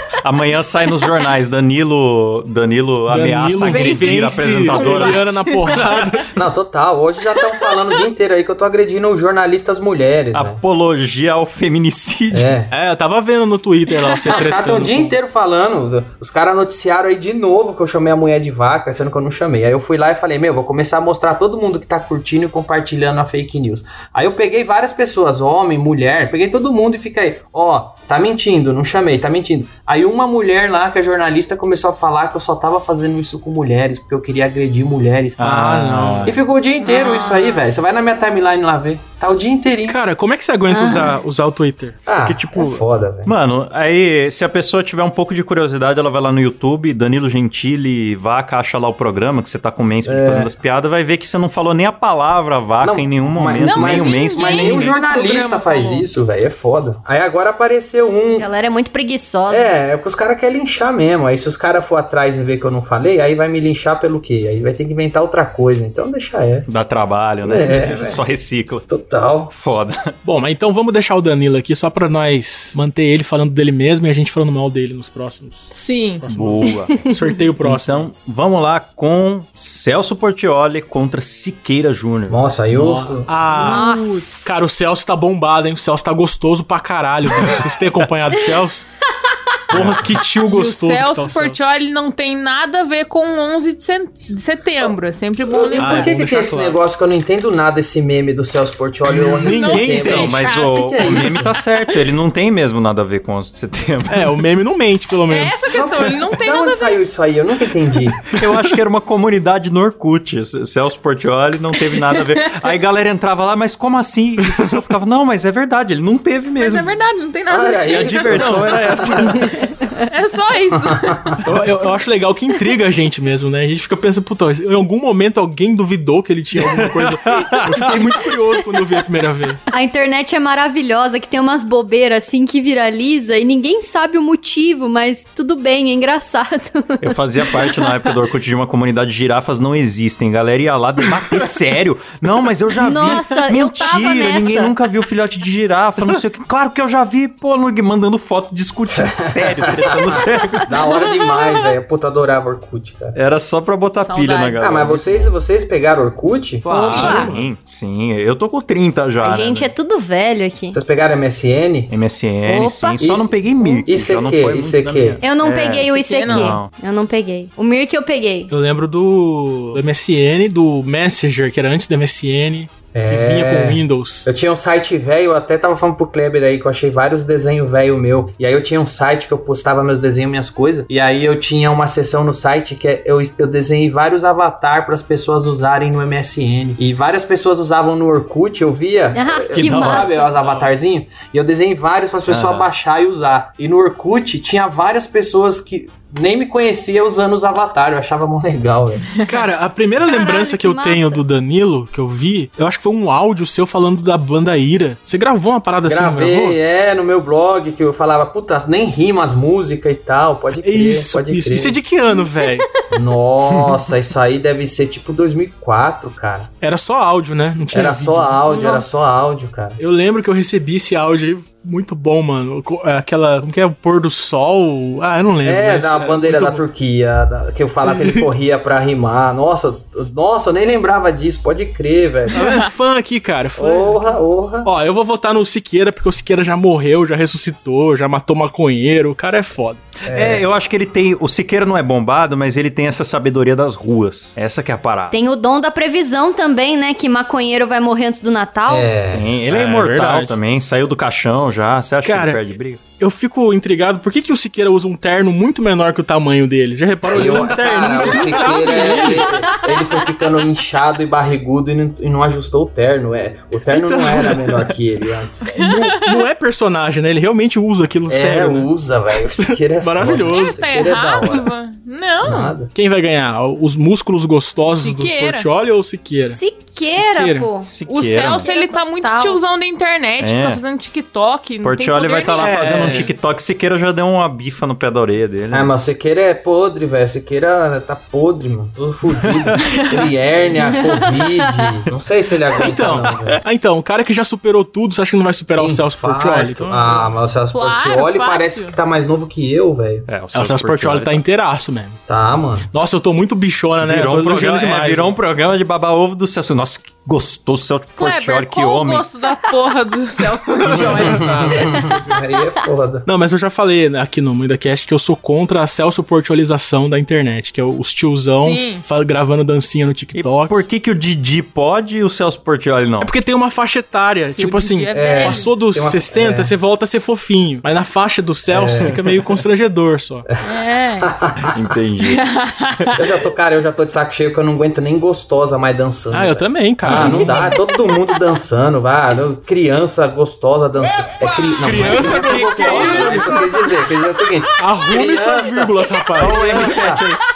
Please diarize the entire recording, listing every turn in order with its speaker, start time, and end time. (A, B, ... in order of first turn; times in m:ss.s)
0:00.2-0:06.1 A
0:03.1-0:06.3 B
0:03.7-0:04.1 C
0:04.7-0:06.1 C
0:06.4-0:10.6 D
0:10.3-0:12.5 A
0:12.3-0:12.7 D
0:12.7-0:15.1 B
0:14.3-0:35.7 D
0:35.4-0:36.4 A
0:35.4-0:36.4 B
0:36.2-0:40.0 D
0:36.8-0:37.7 C
0:39.9-0:42.8 B
0:40.7-0:41.2 E
0:42.1-0:43.3 D
0:43.2-0:54.9 A
0:50.0-0:50.5 D
0:52.8-0:58.5 D
0:53.6-0:56.1 C
0:58.4-0:59.7 E
0:59.5-1:06.7 D
1:06.7-1:08.9 A
1:07.4-1:08.2 D
1:08.9-1:09.5 D
1:09.5-1:10.1 A
1:10.2-1:18.1 B
1:15.7-1:16.2 C
1:16.3-1:17.1 A
1:17.6-1:22.4 A
1:22.3-1:23.3 D
1:22.7-1:28.9 B
1:23.5-1:24.7 E
1:29.7-1:31.6 B
1:29.7-1:30.2 A
1:30.4-1:36.2 C
1:35.5-1:41.6 D
1:35.8-1:36.8 B
1:39.1-1:40.4 B
1:39.4-1:41.4 C
1:39.7-1:44.4 A
1:44.1-1:45.7 B
1:45.3-1:47.0 C
1:45.7-1:48.2 D
1:48.3-1:56.9 A
1:52.2-1:52.7 C
1:56.6-1:58.7 C
1:57.5-1:59.5 D
1:57.9-1:59.7 A
2:00.0-2:01.4 C
2:00.9-2:01.4 D
2:01.4-2:09.7 B
2:06.6-2:08.1 A
2:09.7-2:17.8 E
2:17.0-2:30.7 A
2:22.8-2:24.7 E
2:28.9-2:33.2 D
2:33.2-2:35.3 A
2:34.0-2:34.6 C
2:34.6-2:37.1 D
2:36.6-2:39.7 A
2:36.7-2:37.3 E
2:36.8-2:37.2 C
2:36.8-2:37.5 B
2:39.2-2:40.8 E
2:40.7-2:41.9 D
2:41.9-2:46.7 A
2:42.4-2:43.9 E
2:43.0-2:45.2 D
2:45.2-2:48.5 E
2:45.8-2:46.6 C
2:48.5-2:54.3 B
2:52.9-3:19.1 D
3:09.1-3:10.3 E
3:09.5-3:10.2 A
3:10.4-3:10.7 B
3:12.3-3:12.7 A
3:19.3-3:26.6 B
3:20.0-3:21.2 E
3:25.9-3:31.8 D
3:30.6-3:32.7 B
3:32.2-3:32.6 E
3:32.9-3:36.5 D
3:36.6-3:38.4 B
3:37.7-3:39.8 D
3:38.5-3:39.0 E
3:39.8-3:46.6 B
3:45.4-3:52.4 D
3:47.9-3:48.3 B
3:52.3-3:59.8 B
3:53.6-3:54.7 D
4:00.1-4:00.5 D
4:00.1-4:05.2 A
4:05.1-4:08.9 E
4:08.7-4:09.4 D
4:09.1-4:12.8 A
4:09.5-4:10.4 B
4:12.0-4:19.5 B
4:17.1-4:25.6 D
4:23.7-4:24.6 B
4:25.5-4:28.7 B
4:25.6-4:26.1 C
4:28.1-4:31.5 D
4:29.3-4:30.6 B
4:30.2-4:32.6 C
4:32.2-4:32.7 D
4:32.7-4:37.5 B
4:34.7-4:35.5 C
4:36.2-4:39.4 E
4:37.6-4:38.5 A
4:37.9-4:43.0 C
4:40.2-4:40.6 A
4:41.6-4:45.7 A
4:42.4-4:43.1 B
4:42.7-4:43.1 D
4:45.5-4:53.4 D
4:49.2-4:49.8 A
4:52.6-4:57.1 B
4:52.6-4:53.4 A
4:55.6-5:00.1 D
4:57.5-4:58.8 C
5:00.1-5:01.2 A
5:00.3-5:02.0 B
5:02.1-5:02.7 D
5:02.7-5:05.2 B
5:03.8-5:09.1 A
5:08.0-5:12.0 C
5:10.6-5:11.0 A
5:10.7-5:13.1 D
5:10.8-5:11.7 B
5:13.1-5:20.6 B
5:18.4-5:18.8 C
5:20.2-5:23.1 A
5:23.0-5:30.3 B
5:24.4-5:25.5 C
5:24.9-5:26.5 D
5:28.5-5:29.0 D
5:28.8-5:29.4 A
5:30.4-5:31.1 C
5:31.0-5:31.6 D
5:31.5-5:32.2 A
5:32.0-5:33.0 C
5:33.0-5:47.0 D
5:36.1-5:37.6 B
5:36.8-5:37.3 A
5:41.6-5:43.5 B
5:41.7-5:43.4 A
5:44.6-5:47.2 B
5:46.2-5:47.2 A